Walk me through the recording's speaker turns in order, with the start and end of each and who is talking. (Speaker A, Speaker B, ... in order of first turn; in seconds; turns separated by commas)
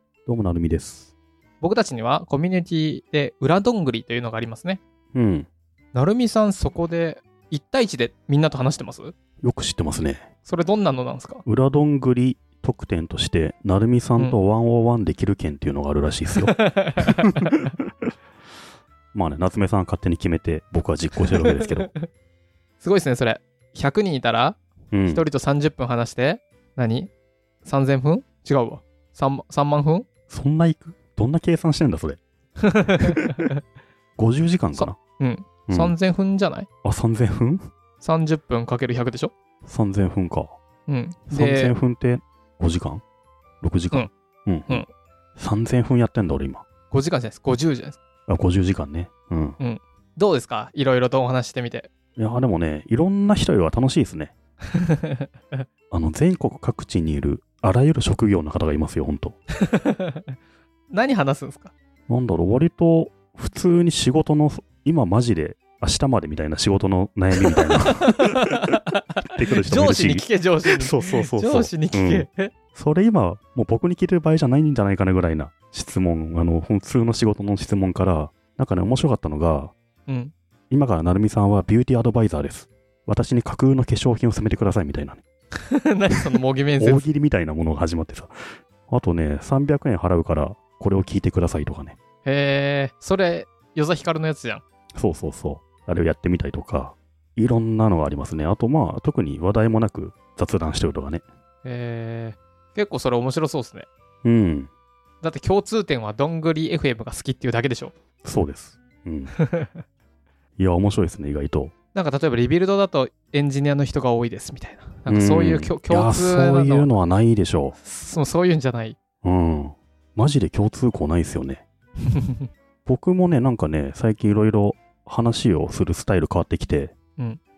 Speaker A: 0.3-1.1, Speaker B: 1.6-4.8, Speaker A: 5.1-5.5, Speaker B: 5.9-9.2, Speaker A: 9.4-10.2, Speaker B: 10.4-11.4, Speaker A: 11.4-17.3, Speaker B: 16.4-17.7, Speaker A: 19.1-21.9, Speaker B: 21.4-22.1, Speaker B: 22.8-27.1, Speaker A: 24.9-25.2, Speaker B: 27.6-30.1, Speaker A: 30.3-32.2, Speaker B: 32.6-33.6, Speaker A: 34.2-35.0, Speaker B: 34.8-36.7, Speaker A: 35.7-36.0, Speaker A: 36.8-37.6, Speaker B: 38.0-39.3, Speaker A: 39.6-40.5, Speaker B: 40.9-41.7, Speaker A: 41.3-43.0, Speaker A: 43.6-44.8, Speaker A: 45.4-46.6, Speaker B: 46.9-48.0, Speaker A: 48.3-49.6, Speaker B: 49.6-51.9, Speaker A: 52.2-54.3, Speaker B: 54.8-55.6, Speaker A: 55.9-59.4, Speaker B: 59.6-60.4, Speaker B: 60.9-61.7, Speaker A: 62.1-68.3, Speaker B: 67.5-72.5, Speaker A: 69.2-79.7, Speaker B: 80.1-80.3, Speaker A: 80.7-85.2, Speaker B: 85.7-87.1, Speaker A: 86.8-88.4, Speaker A: 88.9-92.0, Speaker B: 92.2-94.6, Speaker A: 95.0-101.2, Speaker B: 101.6-103.9, Speaker A: 104.2-104.7, Speaker B: 105.2-107.9, Speaker A: 108.2-109.3, Speaker B: 109.4-109.8, Speaker A: 110.6-111.7, Speaker B: 111.9-116.9, Speaker A: 115.1-117.8, Speaker B: 117.8-119.0, Speaker A: 119.2-121.6, Speaker B: 122.1-122.5, Speaker A: 122.9-126.9